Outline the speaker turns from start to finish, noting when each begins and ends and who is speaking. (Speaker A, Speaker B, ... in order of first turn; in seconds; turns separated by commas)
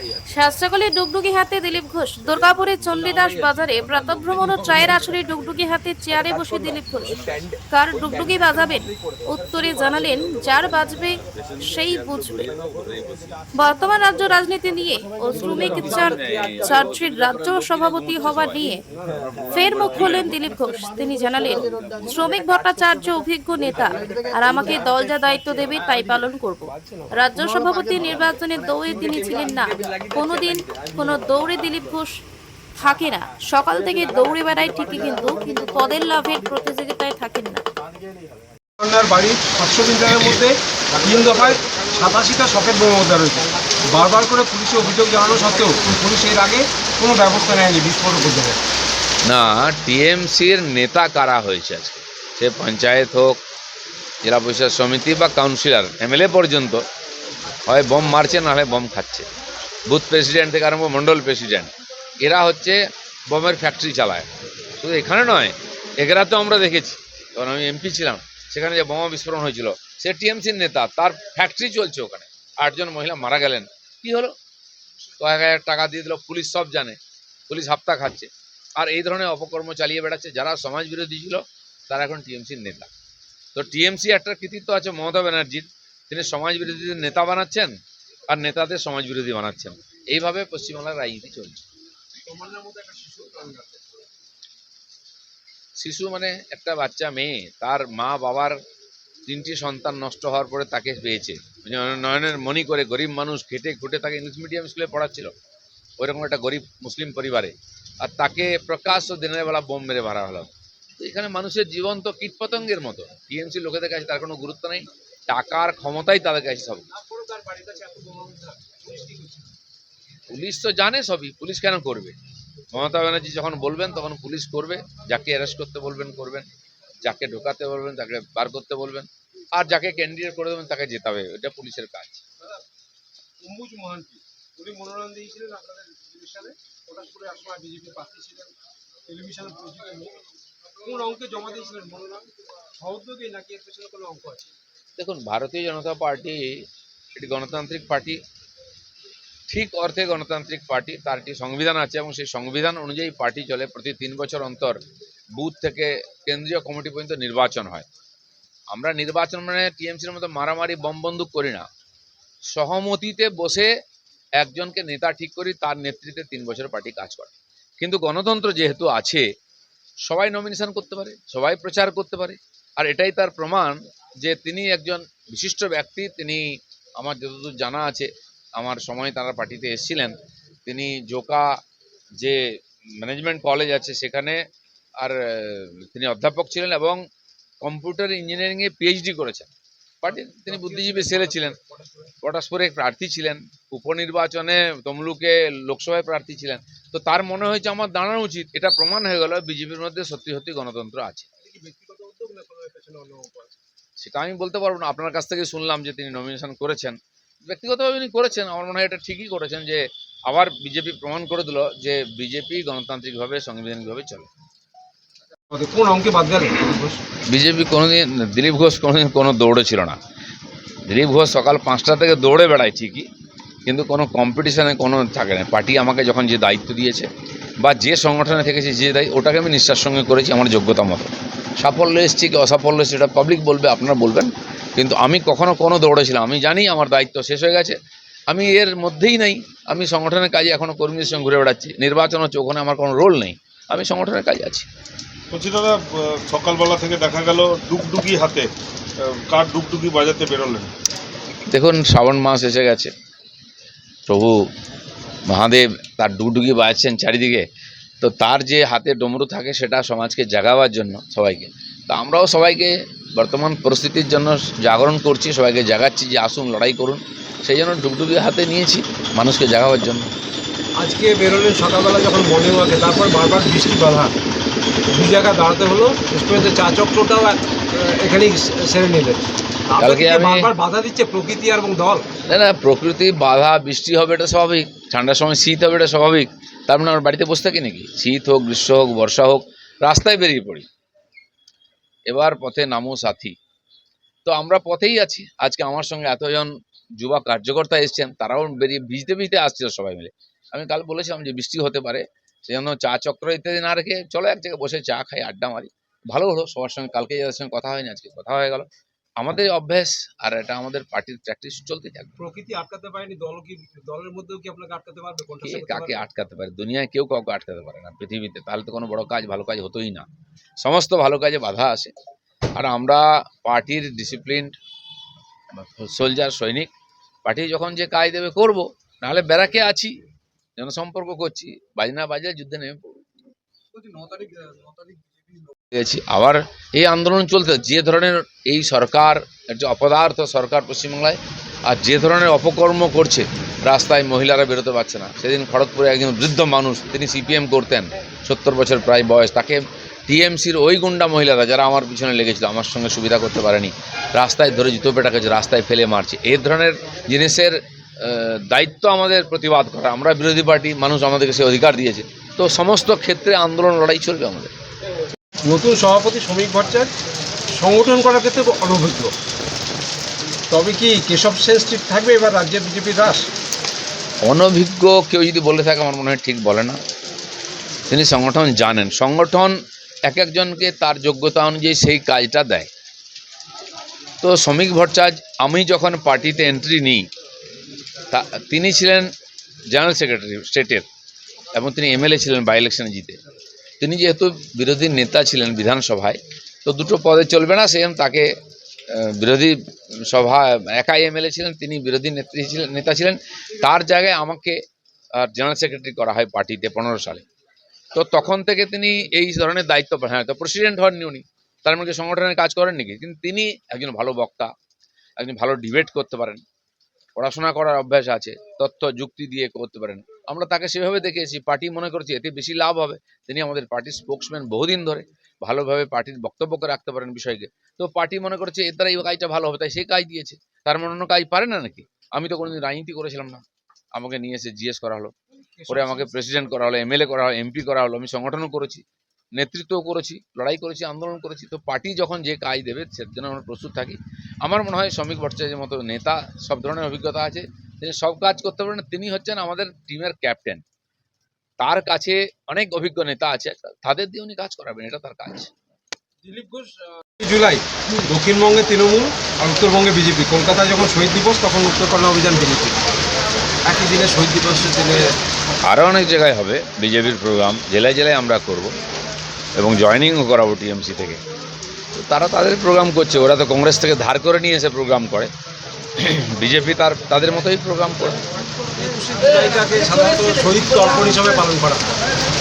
Speaker A: 0.3-12.6, Speaker A: 13.5-18.8, Speaker A: 19.5-32.1, Speaker A: 32.8-37.6, Speaker B: 38.8-48.6, Speaker C: 49.2-53.3, Speaker C: 54.2-56.8, Speaker C: 57.6-59.3, Speaker C: 59.9-62.8, Speaker C: 63.3-64.3, Speaker C: 64.8-74.3, Speaker C: 75.2-77.0, Speaker C: 77.5-82.9, Speaker C: 83.5-87.7, Speaker C: 88.3-91.6, Speaker B: 92.2-93.8, Speaker C: 95.8-98.6, Speaker C: 99.2-105.3, Speaker C: 106.0-116.9, Speaker B: 116.9-119.5, Speaker C: 120.3-122.1, Speaker C: 122.7-126.5, Speaker C: 127.0-132.2, Speaker B: 133.4-138.5, Speaker B: 139.1-140.2, Speaker B: 140.7-144.5, Speaker C: 145.0-146.6, Speaker C: 147.1-148.2, Speaker C: 149.5-154.8, Speaker C: 155.3-157.8, Speaker C: 158.7-161.7, Speaker C: 162.5-163.7, Speaker C: 164.4-169.3, Speaker C: 170.1-176.4, Speaker C: 177.0-181.4, Speaker C: 183.0-184.4, Speaker C: 185.0-187.0, Speaker C: 187.6-189.5, Speaker C: 190.0-191.6, Speaker B: 190.1-192.1, Speaker C: 192.2-201.3, Speaker B: 201.4-203.6, Speaker C: 204.0-214.3, Speaker B: 215.5-217.0, Speaker C: 217.3-220.0, Speaker C: 220.9-223.1, Speaker C: 223.7-227.1, Speaker C: 227.6-237.8, Speaker C: 238.3-244.7, Speaker D: 245.3-248.5, Speaker D: 249.0-250.7, Speaker C: 251.5-252.9, Speaker C: 254.1-254.4, Speaker C: 255.3-257.4, Speaker C: 258.0-270.1, Speaker B: 270.8-274.1, Speaker B: 274.9-282.0, Speaker C: 279.8-280.5, Speaker C: 282.3-290.6, Speaker C: 292.1-293.3, Speaker C: 294.2-308.6, Speaker C: 309.2-312.2, Speaker B: 312.2-316.0, Speaker C: 315.4-320.1, Speaker C: 320.6-321.9, Speaker C: 322.5-324.5, Speaker C: 325.5-326.7, Speaker C: 327.2-330.0, Speaker C: 330.6-333.0, Speaker B: 333.7-335.5, Speaker C: 335.7-364.5, Speaker B: 365.4-366.9, Speaker B: 367.5-369.1, Speaker B: 370.5-373.3, Speaker C: 374.2-376.8, Speaker C: 377.9-382.7, Speaker C: 384.2-387.1, Speaker C: 388.1-389.1, Speaker C: 389.7-390.9, Speaker C: 391.5-393.2, Speaker C: 393.8-398.3, Speaker C: 398.9-404.6, Speaker C: 405.1-407.2, Speaker C: 407.9-414.5, Speaker C: 415.2-416.4, Speaker C: 417.1-433.4, Speaker C: 433.9-435.1, Speaker B: 435.6-436.2, Speaker C: 435.7-438.8, Speaker C: 439.4-450.6, Speaker C: 451.6-455.5, Speaker B: 456.2-462.8, Speaker B: 463.6-465.1, Speaker C: 465.6-468.7, Speaker C: 469.6-471.2, Speaker C: 471.9-475.3, Speaker C: 476.0-478.2, Speaker B: 478.7-482.0